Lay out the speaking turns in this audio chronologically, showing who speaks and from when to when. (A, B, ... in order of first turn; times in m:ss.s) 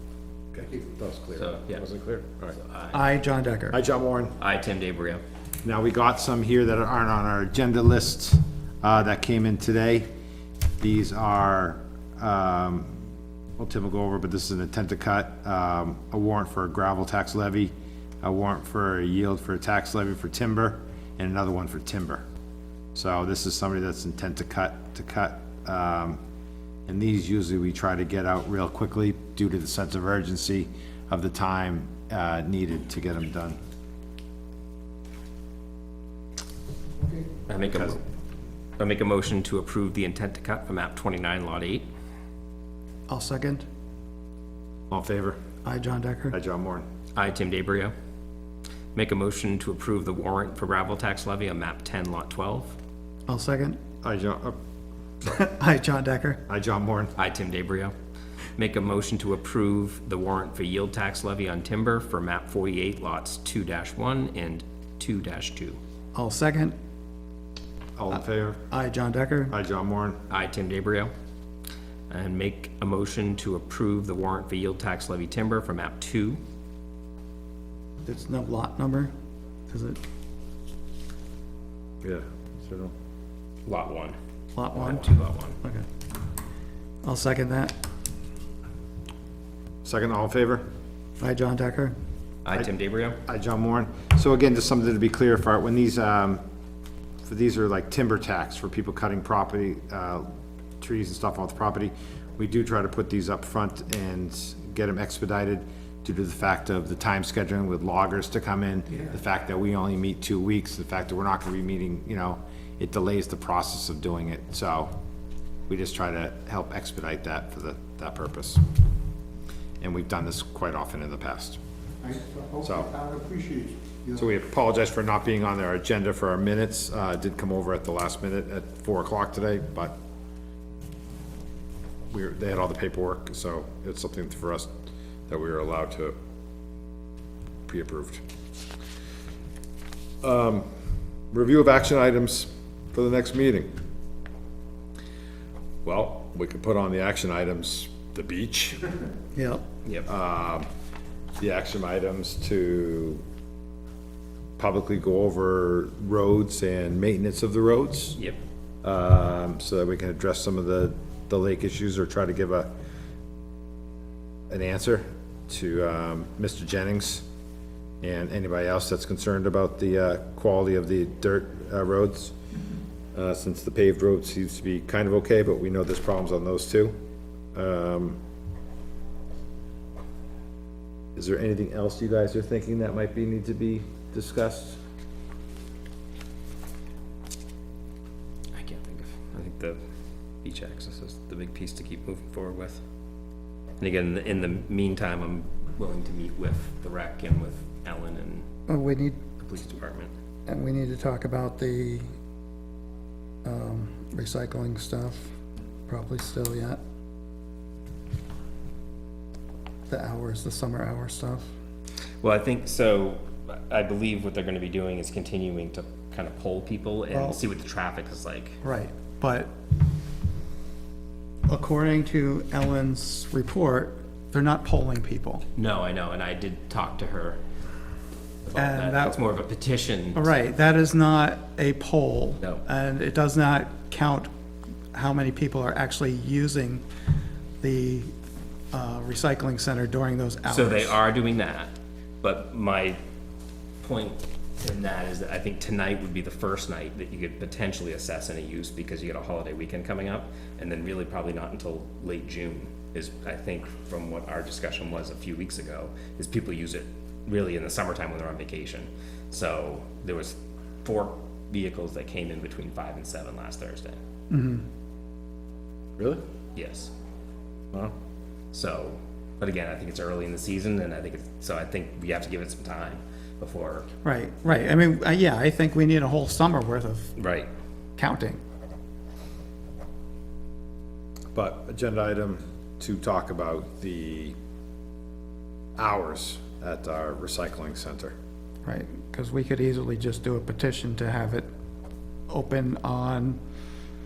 0:00.5-0:02.6 A
0:01.3-0:01.8 B
0:02.5-0:03.0 B
0:02.9-0:03.8 C
0:03.7-0:04.4 A
0:04.4-0:05.2 B
0:05.6-0:10.1 A
0:10.8-0:13.0 A
0:13.6-0:22.2 A
0:22.9-0:26.2 A
0:26.9-0:33.6 A
0:37.5-0:38.0 B
0:37.6-0:38.0 A
0:38.8-0:41.8 B
0:43.1-0:43.6 C
0:44.9-0:45.4 A
0:45.6-0:46.4 C
0:46.3-0:46.8 A
0:47.1-0:47.9 B
0:48.9-0:52.8 B
0:53.3-0:53.8 C
0:54.0-0:54.6 A
0:55.2-0:56.4 C
0:56.5-0:57.1 A
0:57.2-0:57.9 B
0:58.6-1:05.8 B
1:06.1-1:06.8 C
1:08.0-1:08.6 A
1:08.1-1:09.5 C
1:09.5-1:10.2 A
1:10.3-1:11.1 B
1:12.1-1:16.4 B
1:18.0-1:19.1 C
1:19.7-1:20.0 C
1:22.0-1:22.9 A
1:23.6-1:24.2 B
1:24.5-1:25.9 C
1:24.7-1:25.6 B
1:27.0-1:27.8 C
1:29.8-1:30.7 A
1:31.2-1:32.0 C
1:32.4-1:33.2 B
1:33.2-1:36.4 A
1:37.2-1:40.2 A
1:40.8-1:54.9 A
1:55.7-1:58.6 A
1:59.8-2:01.6 A
2:02.0-2:04.2 D
2:02.6-2:02.9 A
2:04.1-2:09.9 A
2:12.1-2:14.7 A
2:15.3-2:16.2 A
2:17.7-2:18.2 A
2:20.2-2:20.7 A
2:21.3-2:23.8 A
2:25.8-2:28.9 A
2:29.3-2:29.6 C
2:30.0-2:30.7 A
2:31.4-2:33.2 A
2:34.6-2:38.2 A
2:38.8-2:42.7 A
2:44.5-2:47.2 A
2:48.0-2:52.3 A
2:53.1-2:57.0 A
2:57.5-2:58.2 A
3:01.2-3:04.8 A
3:08.5-3:09.8 B
3:10.4-3:12.8 B
3:13.8-3:18.4 B
3:18.7-3:19.2 C
3:19.4-3:20.1 B
3:20.5-3:22.0 C
3:23.4-3:25.3 C
3:25.9-3:26.8 C
3:29.9-3:31.5 C
3:32.2-3:38.6 B
3:37.1-3:37.4 C
3:38.6-3:39.5 C
3:41.5-3:45.4 C
3:45.6-3:47.4 B
3:48.4-3:50.2 B
3:48.5-3:49.2 C
3:50.1-3:54.3 C
3:54.9-3:56.8 C
3:57.6-3:58.1 C
3:58.7-4:01.0 C
4:00.4-4:03.0 B
4:03.8-4:24.0 B
4:24.3-4:24.6 C
4:26.0-4:26.2 A
4:26.5-4:26.9 B
4:28.5-4:33.9 B
4:34.0-4:37.1 C
4:37.2-4:37.5 B
4:38.0-4:38.4 C
4:41.3-4:44.4 A
4:45.8-4:48.1 A
4:48.6-4:51.5 C
4:52.3-4:53.4 C